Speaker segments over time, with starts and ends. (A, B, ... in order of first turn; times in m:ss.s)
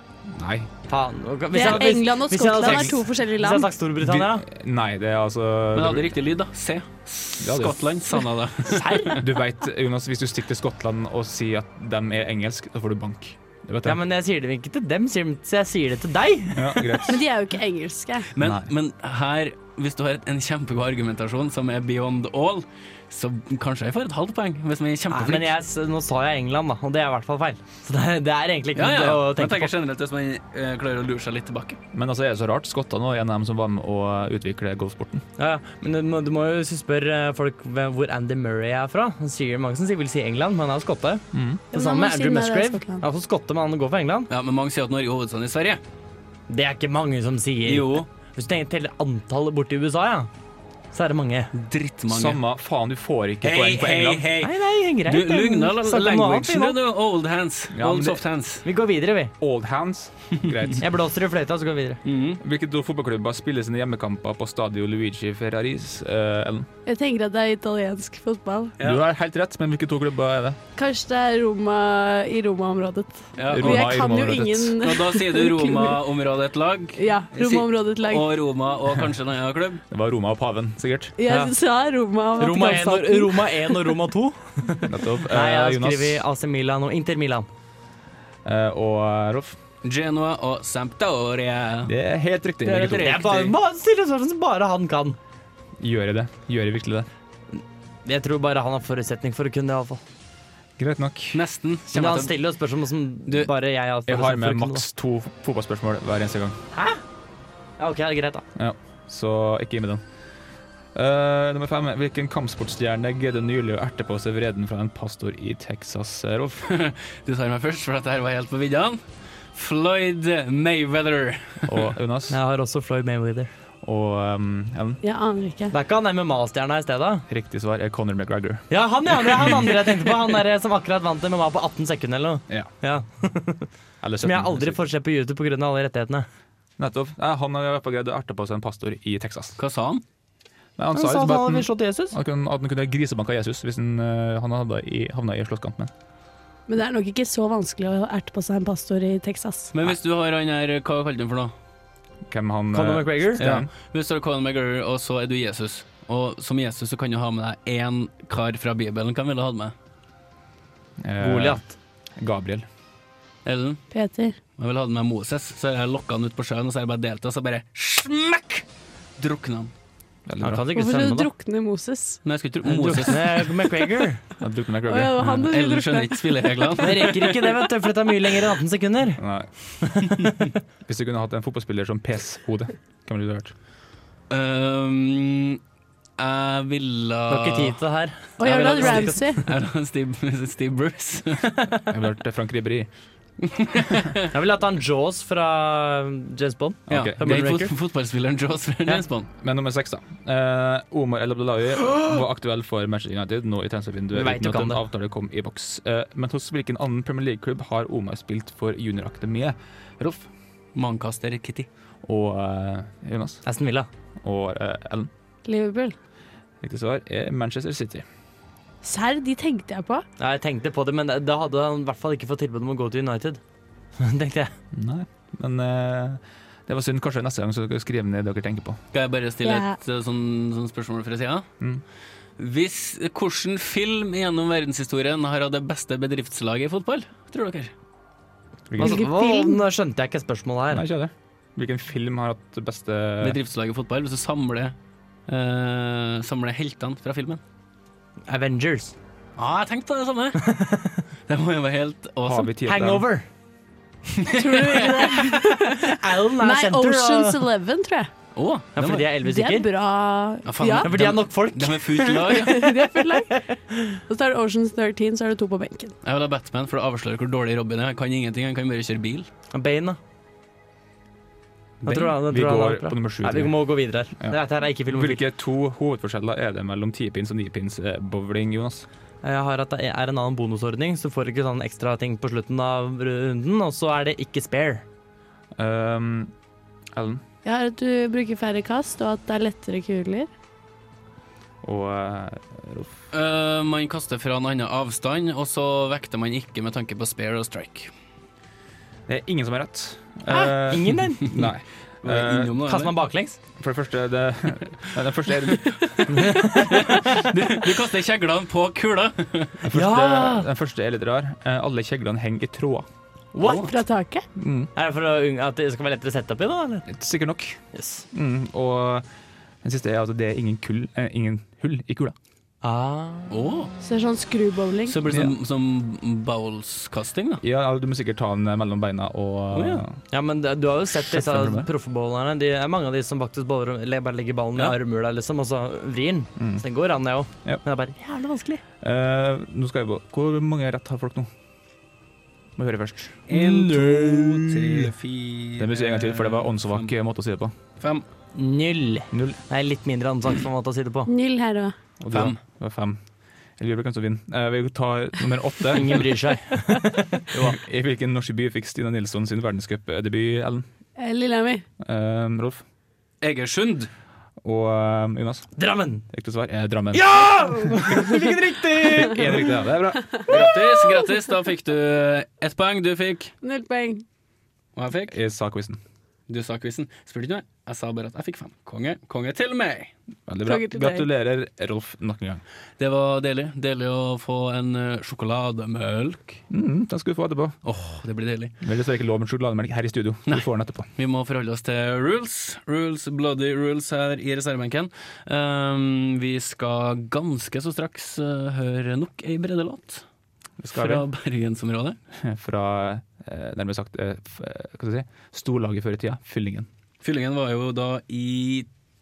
0:00.3-0:00.7 A
0:00.9-0:04.4 B
0:01.5-0:03.7 C
0:04.0-0:06.1 A
0:05.7-0:09.2 D
0:07.4-0:07.8 A
0:08.7-0:09.2 B
0:09.2-0:14.0 A
0:13.8-0:17.1 B
0:16.5-0:17.2 A
0:17.1-0:18.3 C
0:18.4-0:25.5 D
0:18.4-0:18.7 A
0:25.1-0:29.7 B
0:28.8-0:31.8 D
0:31.9-0:35.2 A
0:35.4-0:44.3 B
0:41.3-0:41.6 A
0:41.7-0:43.0 C
0:44.3-0:45.8 D
0:46.5-0:50.3 B
0:47.7-0:48.1 D
0:50.9-0:51.5 B
0:51.5-0:52.4 D
0:52.1-0:54.3 A
0:53.4-0:58.6 D
0:54.4-0:56.8 B
0:57.7-0:58.2 A
0:58.6-0:59.3 B
0:59.4-1:00.8 A
1:00.8-1:02.0 B
1:02.0-1:02.4 D
1:02.4-1:06.7 A
1:06.9-1:08.8 C
1:08.8-1:10.6 A
1:10.8-1:16.0 C
1:13.4-1:14.0 D
1:13.5-1:14.8 A
1:14.8-1:19.8 D
1:17.0-1:18.3 C
1:19.9-1:21.1 A
1:21.2-1:23.9 C
1:21.3-1:21.5 B
1:22.4-1:27.5 B
1:24.8-1:26.2 A
1:28.4-1:29.6 A
1:29.8-1:31.9 D
1:31.8-1:33.2 A
1:32.6-1:33.5 D
1:32.8-1:35.2 B
1:35.8-1:37.1 A
1:38.0-1:40.0 B
1:40.8-1:41.4 A
1:41.3-1:42.3 D
1:41.9-1:44.9 B
1:44.1-1:46.6 A
1:46.7-1:47.0 B
1:47.8-1:48.4 B
1:48.6-1:50.0 A
1:51.0-1:56.7 A
1:56.7-1:59.0 D
1:59.5-2:01.9 D
2:01.7-2:02.4 A
2:02.3-2:03.5 B
2:03.8-2:05.0 A
2:05.0-2:05.8 C
2:05.7-2:07.2 B
2:07.3-2:08.6 A
2:08.7-2:13.7 B
2:14.0-2:14.8 A
2:14.2-2:16.3 B
2:16.8-2:19.6 A
2:19.6-2:20.0 D
2:20.8-2:25.9 A
2:20.9-2:22.2 B
2:26.7-2:29.7 C
2:29.7-2:31.5 D
2:32.3-2:33.7 A
2:32.7-2:33.6 B
2:33.4-2:39.7 D
2:41.0-2:41.6 A
2:41.2-2:41.7 B
2:42.2-2:42.7 A
2:43.4-2:43.8 D
2:43.9-2:44.4 C
2:44.6-2:48.6 D
2:49.2-2:49.7 D
2:50.3-2:50.6 A
2:50.4-2:51.3 B
2:50.7-2:52.2 C
2:52.2-2:53.6 D
2:52.6-2:54.2 B
2:54.4-2:55.4 A
2:54.9-2:56.7 C
2:55.2-2:57.7 D
2:56.8-2:59.2 B
2:59.2-2:59.5 A
2:59.8-3:00.5 B
3:00.8-3:03.5 A
3:04.3-3:05.6 D
3:06.2-3:07.8 D
3:07.3-3:09.5 B
3:08.4-3:09.4 C
3:08.5-3:11.6 D
3:11.9-3:12.9 A
3:13.4-3:14.3 D
3:14.3-3:17.7 B
3:16.9-3:17.4 A
3:16.9-3:19.3 D
3:19.4-3:30.3 A
3:24.1-3:24.8 B
3:30.8-3:31.7 D
3:32.0-3:33.4 A
3:33.4-3:33.9 B
3:34.2-3:35.1 A
3:35.4-3:36.0 C
3:36.6-3:38.0 A
3:38.8-3:40.0 C
3:40.2-3:43.4 B
3:44.0-3:44.5 B
3:44.7-3:48.8 A
3:48.9-3:51.5 D
3:49.4-3:49.8 C
3:52.4-3:57.7 D
3:58.7-3:59.0 A
3:58.8-4:00.8 B
3:58.8-3:59.6 C
4:00.7-4:03.4 A
4:03.2-4:04.8 D
4:05.3-4:07.4 D
4:08.3-4:09.0 B
4:09.4-4:10.5 D
4:10.4-4:11.0 B
4:11.3-4:12.5 D
4:12.2-4:13.1 A
4:12.6-4:13.3 B
4:14.2-4:15.3 D
4:14.3-4:18.1 C
4:15.6-4:17.4 B
4:18.4-4:19.1 D
4:18.8-4:19.7 B
4:19.2-4:20.9 C
4:20.5-4:22.7 D
4:20.8-4:22.4 B
4:22.3-4:23.4 C
4:23.1-4:24.0 B
4:24.1-4:25.9 C
4:26.0-4:29.3 D
4:29.5-4:30.0 B
4:31.8-4:33.6 A
4:31.8-4:35.2 B
4:34.9-4:38.9 A
4:39.2-4:44.8 B
4:45.6-4:46.3 A
4:46.9-4:47.2 A
4:47.4-4:50.3 C
4:51.6-4:52.9 A
4:53.1-4:57.9 D
4:59.1-5:02.6 A
5:00.3-5:01.5 B
5:02.0-5:02.9 D
5:02.6-5:03.4 B
5:03.6-5:06.2 A
5:05.8-5:09.6 D
5:06.1-5:07.3 B
5:09.6-5:12.9 A
5:09.7-5:10.5 B
5:13.3-5:13.7 B
5:13.4-5:14.3 C
5:14.4-5:14.7 A
5:14.8-5:16.9 B
5:16.9-5:17.6 A
5:17.7-5:18.0 B
5:18.1-5:19.1 A
5:19.6-5:22.2 A
5:22.6-5:23.4 B
5:23.3-5:23.7 D
5:23.8-5:25.0 C
5:24.9-5:27.4 D
5:25.1-5:25.4 A
5:27.4-5:30.0 A
5:29.5-5:29.8 D
5:30.1-5:38.6 B
5:31.0-5:31.7 A
5:38.8-5:41.3 A
5:42.6-5:43.2 A
5:43.3-5:46.9 D
5:43.3-5:44.9 B
5:45.6-5:47.5 A
5:47.8-5:48.0 D
5:48.4-5:51.1 B
5:49.1-5:49.4 A
5:51.1-5:51.7 C
5:52.0-5:53.0 A
5:52.1-5:52.4 D
5:53.6-5:56.1 A
5:55.7-5:57.6 B
5:57.4-6:00.7 A
6:01.0-6:01.6 C
6:01.8-6:02.6 A
6:03.2-6:03.9 D
6:04.4-6:05.5 A
6:05.6-6:06.0 B
6:06.1-6:07.2 A
6:06.9-6:09.6 B
6:07.8-6:08.2 A
6:08.8-6:10.6 A
6:10.3-6:13.3 D
6:13.4-6:14.0 C
6:14.8-6:15.2 D
6:15.1-6:15.8 A
6:16.3-6:19.9 D
6:20.3-6:22.4 A
6:20.4-6:21.1 C
6:22.8-6:26.4 D
6:26.5-6:27.6 A
6:27.6-6:28.6 D
6:28.6-6:30.9 A
6:30.3-6:40.0 D
6:40.6-6:41.0 A
6:40.7-6:42.0 D
6:42.2-6:46.7 A
6:47.0-6:48.7 D